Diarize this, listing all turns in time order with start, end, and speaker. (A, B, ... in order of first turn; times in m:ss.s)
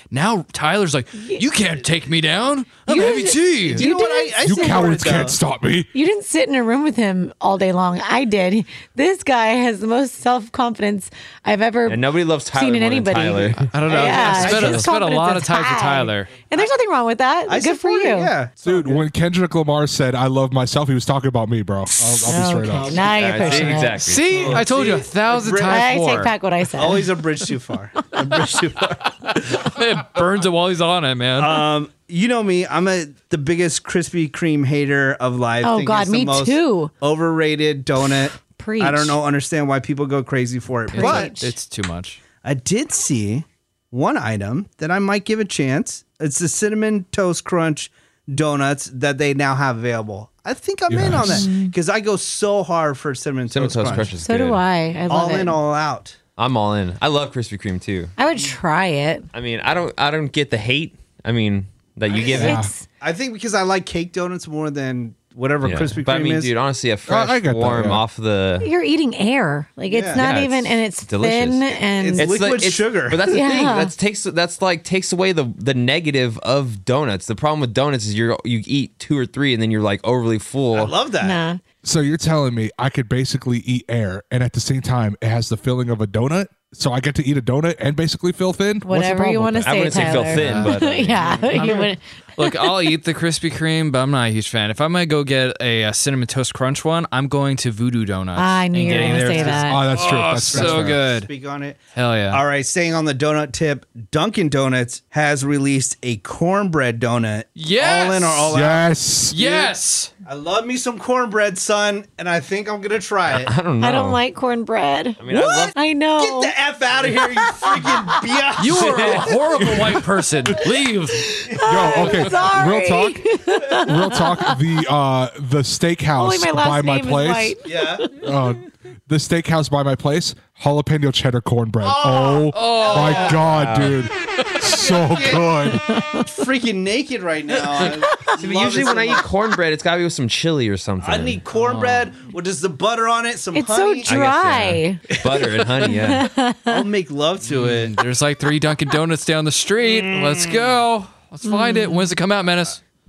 0:00.1-0:03.8 A
0:02.9-0:05.4 B
0:02.9-0:04.9 C
0:04.4-0:05.9 D
0:05.9-0:18.3 C
0:11.8-0:13.7 E
0:13.6-0:16.4 A
0:13.8-0:14.9 B
0:17.5-0:19.0 B
0:18.6-0:23.1 D
0:22.2-0:24.2 C
0:22.7-0:25.9 B
0:23.1-0:24.5 E
0:24.0-0:26.3 A
0:25.7-0:27.2 C
0:26.7-0:29.5 B
0:29.2-0:31.7 A
0:31.4-0:41.3 B
0:35.6-0:36.9 C
0:38.6-0:39.2 C
0:40.9-0:42.2 A
0:40.9-0:41.5 C
0:42.4-0:54.1 B
0:50.9-0:51.5 D
0:51.4-0:51.7 C
0:53.5-0:54.6 E
0:54.2-0:55.6 C
0:55.1-0:56.2 B
0:56.4-0:58.1 E
0:58.2-0:59.3 C
0:59.3-1:02.6 E
1:02.2-1:02.8 C
1:02.3-1:02.7 D
1:03.0-1:06.5 B
1:05.6-1:08.7 E
1:07.1-1:08.0 D
1:08.6-1:12.3 C
1:09.9-1:10.2 B
1:10.1-1:20.9 E
1:12.0-1:13.2 B
1:13.3-1:13.9 C
1:20.7-1:21.4 B
1:21.2-1:21.6 C
1:21.8-1:30.7 D
1:28.8-1:32.6 C
1:29.6-1:31.8 E
1:31.5-1:41.3 A
1:38.4-1:39.9 C
1:38.8-1:39.5 E
1:38.9-1:41.8 B
1:39.7-1:41.0 D
1:41.9-1:42.4 A
1:42.3-1:53.5 B
1:47.6-1:48.5 A
1:48.5-1:49.4 D
1:49.3-1:50.1 A
1:53.3-1:54.2 E
1:53.8-1:58.0 C
1:55.2-1:55.7 E
1:56.2-1:59.6 B
1:58.6-2:01.4 A
1:58.7-1:59.7 E
2:01.2-2:04.6 C
2:01.6-2:07.6 D
2:06.2-2:08.2 C
2:07.6-2:08.1 B
2:08.1-2:15.8 D
2:11.8-2:13.6 B
2:12.5-2:13.4 A
2:13.4-2:14.0 E
2:14.8-2:15.6 B
2:15.7-2:16.3 C
2:16.2-2:19.3 B
2:18.3-2:21.4 E
2:21.0-2:24.1 B
2:21.6-2:22.1 A
2:23.5-2:25.0 C
2:24.0-2:26.3 E
2:25.8-2:26.8 C
2:26.7-2:28.0 B
2:27.4-2:32.8 A
2:29.8-2:30.8 B
2:31.4-2:32.1 C